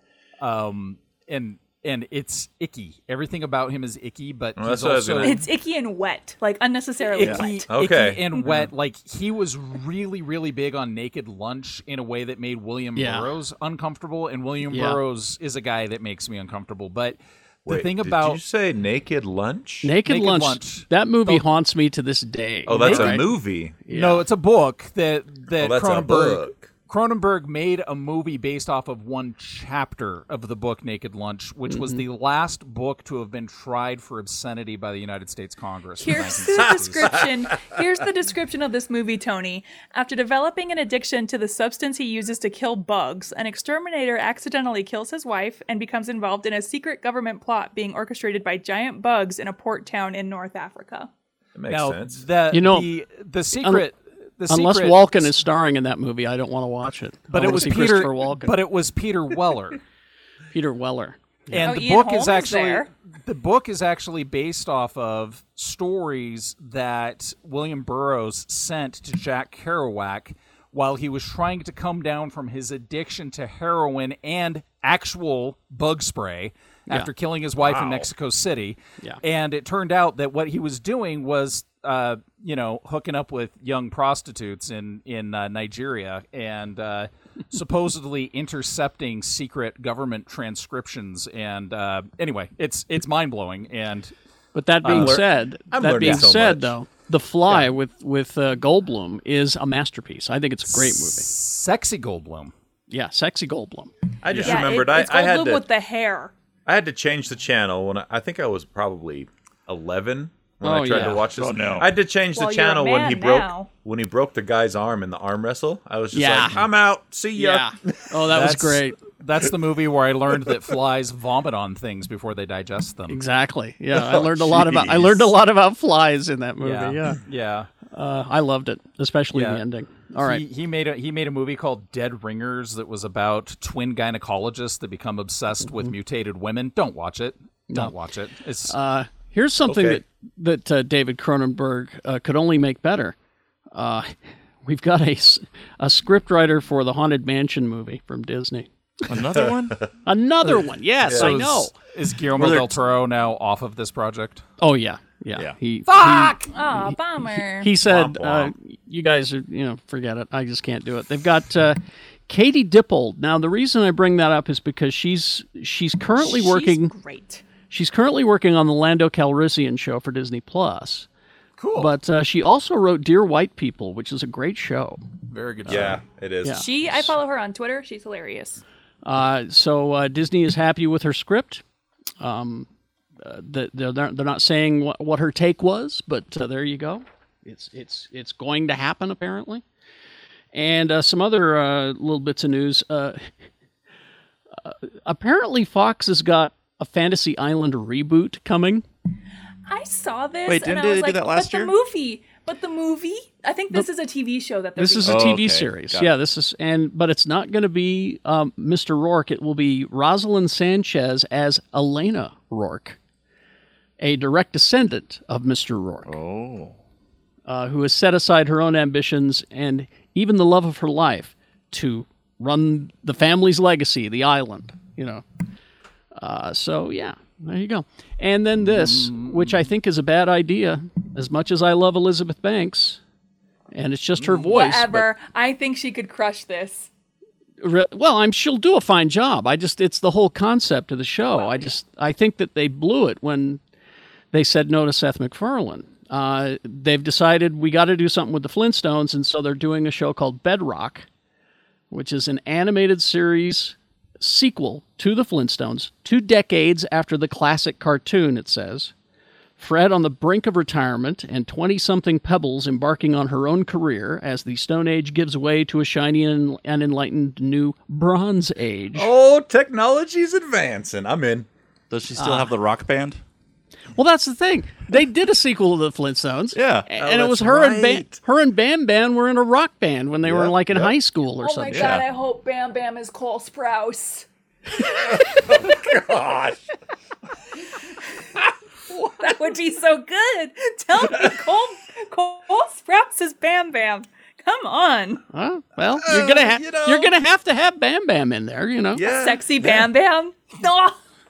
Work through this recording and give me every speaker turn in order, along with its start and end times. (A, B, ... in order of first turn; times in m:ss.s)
0:00.4-0:05.4 A
0:04.6-0:05.4 B
0:05.2-0:07.7 C
0:07.1-0:18.4 A
0:07.7-0:08.7 B
0:13.0-0:13.3 D
0:14.7-0:15.0 D
0:17.6-0:19.9 B
0:19.8-0:23.3 D
0:20.0-0:21.5 A
0:22.7-0:23.7 B
0:22.7-0:23.2 A
0:23.9-0:24.2 D
0:23.9-0:37.2 A
0:25.5-0:26.7 B
0:31.7-0:32.0 D
0:36.0-0:51.1 C
0:51.5-0:52.2 B
0:51.7-0:55.3 A
0:52.5-0:52.9 D
0:53.6-0:53.9 D
0:54.5-0:58.6 D
0:57.3-0:59.8 A
1:00.5-1:01.6 D
1:01.5-1:34.1 A
1:01.6-1:02.9 C
1:17.6-1:18.0 B
1:34.5-1:41.3 D
1:34.8-1:35.2 A
1:34.9-1:36.7 B
1:40.7-1:42.5 A
1:42.9-1:43.9 D
1:44.2-1:45.6 B
1:44.4-1:46.3 C
1:46.6-1:58.1 B
1:50.6-1:51.2 D
1:51.3-1:51.9 E
1:52.3-1:53.7 C
1:56.1-1:56.6 D
1:57.4-1:59.0 D
1:58.3-2:03.2 A
2:03.1-2:07.2 D
2:03.9-2:05.3 B
2:06.6-2:07.7 A
2:07.9-2:10.4 D
2:09.3-2:09.6 A
2:10.2-2:18.7 A
2:18.7-2:23.1 D
2:19.7-2:20.0 B
2:23.7-2:28.7 D
2:29.1-2:29.9 E
2:30.0-2:31.7 D
2:31.0-2:31.3 B
2:31.1-2:34.4 A
2:34.6-2:46.9 D
2:35.9-2:36.5 A
2:36.5-2:37.7 C
2:37.8-2:38.5 B
2:46.2-2:47.4 C
2:47.7-2:51.1 D
2:51.6-2:51.9 A
2:51.8-2:55.0 D
2:55.3-2:56.0 A
2:55.6-2:56.6 B
2:55.7-2:55.9 D
2:56.4-2:57.1 D
2:56.5-2:58.6 C
2:59.0-3:01.6 D
3:02.2-3:02.7 D
3:03.2-3:09.6 D
3:10.5-3:13.3 D
3:14.6-3:18.8 D
3:19.7-3:25.3 C
3:20.4-3:21.7 E
3:24.8-3:33.0 D
3:25.0-3:26.1 E
3:34.0-3:36.1 D
3:36.0-3:36.7 E
3:37.4-3:45.2 D
3:46.2-3:53.0 D
3:48.7-3:49.6 A
3:53.7-3:55.1 D
3:54.3-3:56.9 C
3:57.6-4:03.6 D
4:01.3-4:01.7 C
4:04.3-4:11.0 D
4:11.9-4:18.9 D
4:19.6-4:29.1 D
4:28.9-4:31.5 B
4:31.9-4:33.2 E
4:32.2-4:32.5 D
4:34.0-4:41.9 D
4:36.5-4:36.9 E
4:37.0-4:38.2 B
4:40.2-4:40.9 B
4:41.4-4:44.2 C
4:41.7-4:42.0 E
4:44.8-4:46.1 C
4:45.1-4:46.6 B
4:49.0-4:55.2 C
4:55.3-4:59.0 D
4:56.0-4:57.1 B
4:58.9-4:59.8 B
4:59.0-5:01.0 C